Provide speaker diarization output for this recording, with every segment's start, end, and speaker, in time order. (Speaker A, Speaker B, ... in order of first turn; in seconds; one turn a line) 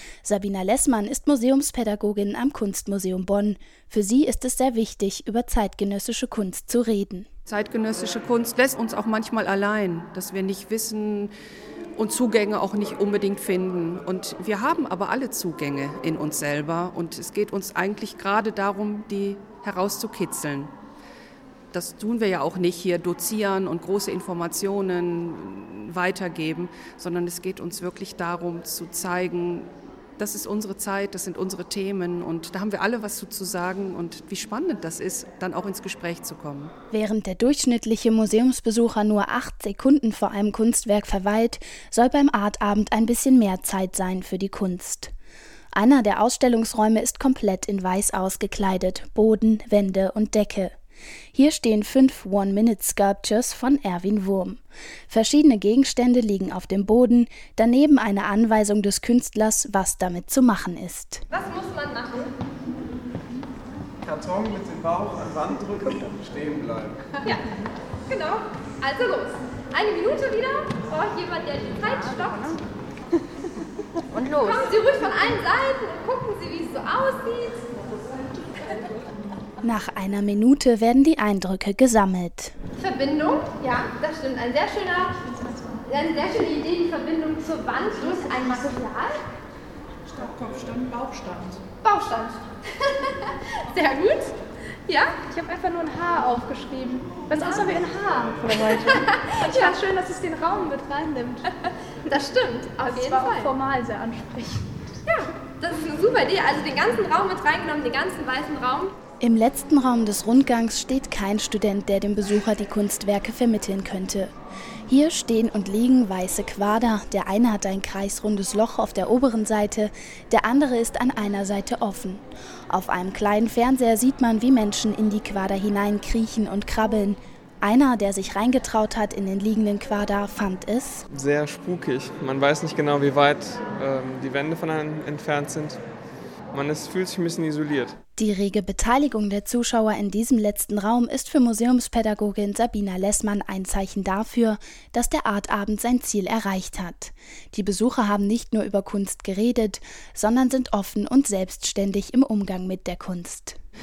Speaker A: 0.2-7.3
Speaker B: 7.5-11.3
Speaker B: 12.0-20.7
Speaker B: 21.7-36.7
Speaker A: 36.9-45.1
Speaker A: 45.8-50.7
Speaker A: 51.3-61.2
Speaker C: 61.3-62.3
Speaker D: 64.0-67.0
Speaker C: 68.1-72.5
Speaker C: 74.5-77.7
Speaker A: 79.6-82.5
Speaker C: 82.8-85.3
Speaker C: 85.9-89.2
Speaker C: 91.8-92.4
Speaker C: 93.7-94.3
Speaker C: 94.9-95.1
Speaker E: 95.2-101.5
Speaker C: 99.2-99.7
Speaker C: 102.1-103.5
Speaker E: 102.8-104.7
Speaker C: 105.1-108.9
Speaker A: 109.2-114.3
Speaker A: 114.9-131.1
Speaker F: 131.1-135.8
Speaker F: 136.5-138.0
Speaker A: 138.2-153.6